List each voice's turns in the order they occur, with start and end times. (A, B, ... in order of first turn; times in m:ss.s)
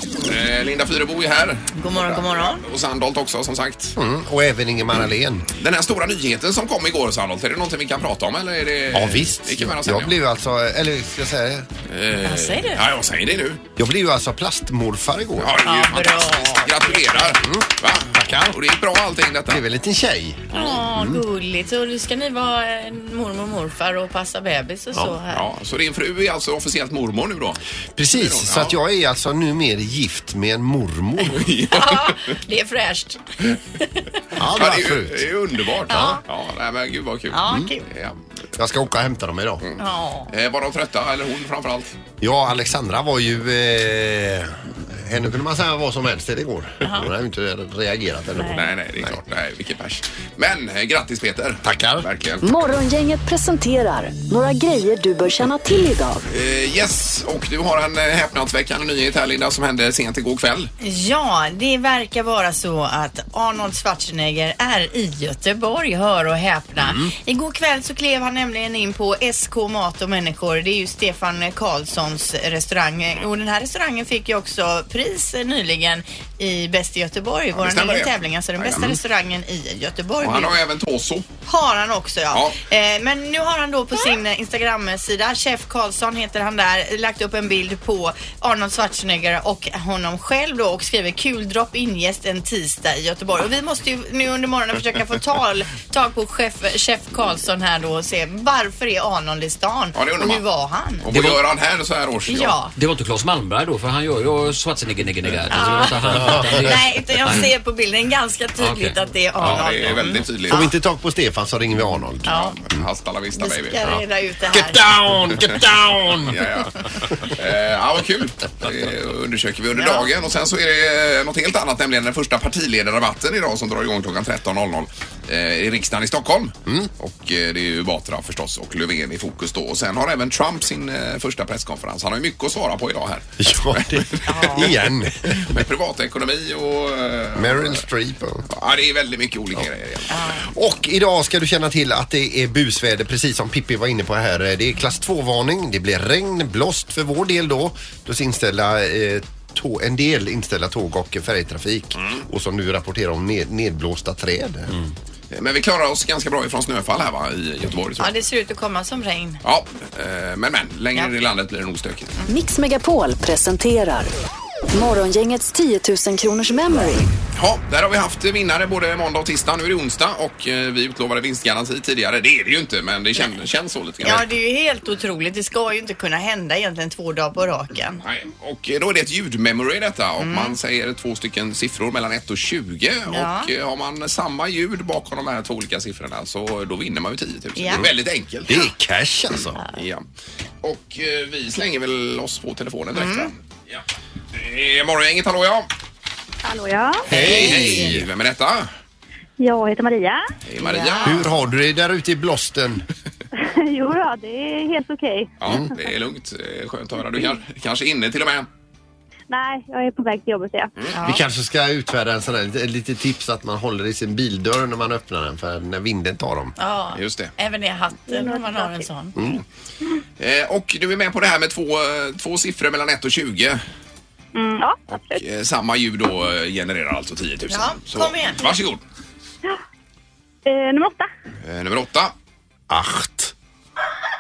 0:00.2-0:04.0 A
0:01.8-0:02.6 B
0:04.0-0:05.5 C
0:05.6-0:10.1 A
0:08.9-0:11.7 C
0:11.9-0:13.6 A
0:12.2-0:12.8 B
0:13.8-0:15.6 C
0:15.4-0:19.6 A
0:15.6-0:17.4 B
0:17.4-0:18.6 C
0:19.5-0:21.2 C
0:20.5-0:25.4 B
0:25.3-0:28.8 A
0:28.0-0:31.5 C
0:31.2-0:32.4 A
0:31.7-0:34.2 B
0:34.4-0:35.3 C
0:34.6-0:38.2 A
0:35.9-0:36.2 C
0:35.9-0:36.2 B
0:37.3-0:37.8 B
0:38.6-0:39.7 C
0:39.6-0:42.0 A
0:39.8-0:40.3 B
0:42.2-0:49.2 C
0:46.8-0:47.1 B
0:48.4-0:48.7 B
0:48.5-0:52.4 A
0:51.6-0:52.1 C
0:52.4-0:56.2 D
0:56.3-1:00.7 A
1:00.8-1:20.6 B
1:06.8-1:07.1 C
1:17.6-1:19.0 A
1:20.2-1:21.3 A
1:21.5-1:41.1 B
1:22.3-1:22.6 A
1:40.0-1:40.4 A
1:41.0-1:42.6 A
1:41.1-1:41.4 E
1:42.3-1:42.7 B
1:42.8-1:46.9 E
1:45.5-1:50.7 B
1:46.0-1:46.6 C
1:48.6-1:48.9 C
1:49.4-1:50.6 A
1:49.5-1:52.8 C
1:52.3-1:52.6 B
1:52.3-1:53.8 A
1:53.3-1:54.9 B
1:53.8-1:57.2 C
1:56.3-1:56.7 A
1:57.2-2:17.8 A
1:59.7-2:00.1 B
2:13.4-2:15.6 C
2:14.3-2:14.7 B
2:17.4-2:18.5 C
2:18.5-2:20.1 A
2:20.1-2:20.5 B
2:20.5-2:34.8 C
2:35.3-2:38.1 A
2:38.0-2:39.4 B
2:39.4-2:42.2 A
2:42.3-2:44.1 D
2:44.7-2:47.1 D
2:47.4-2:54.3 A
2:54.0-2:58.0 B
2:58.0-3:08.6 A
3:00.2-3:00.6 B
3:03.1-3:03.5 B
3:07.6-3:07.9 B
3:08.5-3:09.6 C
3:09.6-3:10.0 A
3:10.6-3:13.8 A
3:12.9-3:13.3 B
3:14.3-3:15.7 A
3:16.4-3:17.1 F
3:17.0-3:18.1 C
3:17.1-3:18.0 B
3:17.1-3:18.7 A
3:19.4-3:20.3 F
3:20.5-3:21.3 A
3:20.6-3:21.3 B
3:21.0-3:22.9 C
3:23.3-3:25.6 F
3:25.4-3:28.5 A
3:29.3-3:30.7 F
3:30.9-3:31.2 B
3:31.0-3:36.6 C
3:36.6-3:39.2 B
3:37.0-3:37.3 A
3:38.1-3:38.9 F
3:40.2-3:43.6 A
3:44.4-3:45.2 F
3:44.9-3:48.8 A
3:47.5-3:48.5 B
3:50.5-3:51.1 F
3:51.4-3:52.1 A
3:52.7-3:53.3 C